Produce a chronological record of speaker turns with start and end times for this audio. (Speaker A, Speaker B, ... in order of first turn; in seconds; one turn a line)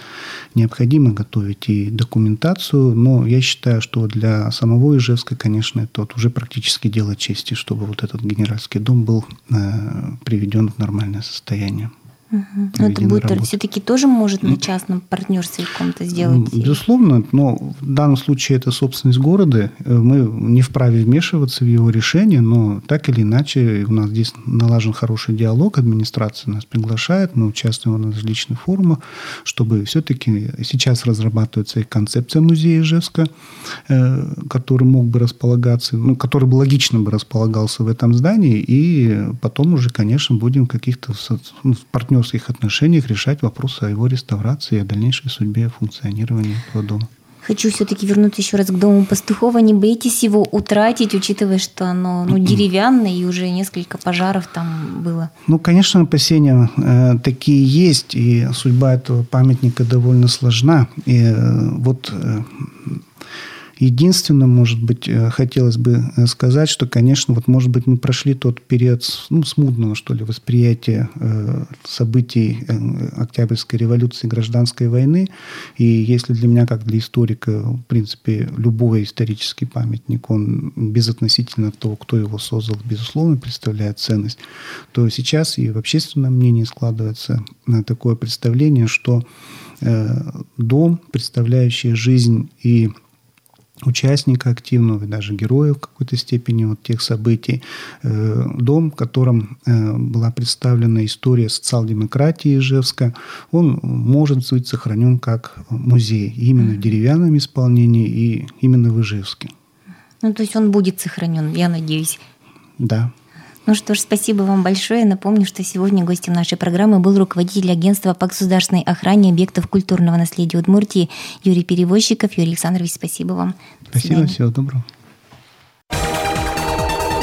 Speaker A: 0.6-11.9
Speaker B: 12.3-16.8
Speaker A: 12.7-13.5
Speaker A: 16.1-33.3
Speaker A: 33.9-47.1
Speaker B: 47.4-55.3
Speaker A: 55.5-63.0
Speaker A: 63.8-84.4
Speaker A: 84.9-89.2
Speaker A: 89.8-92.9
Speaker A: 93.8-109.5
Speaker B: 110.2-112.2
Speaker A: 112.8-113.1
Speaker B: 113.7-124.4
Speaker A: 123.9-124.9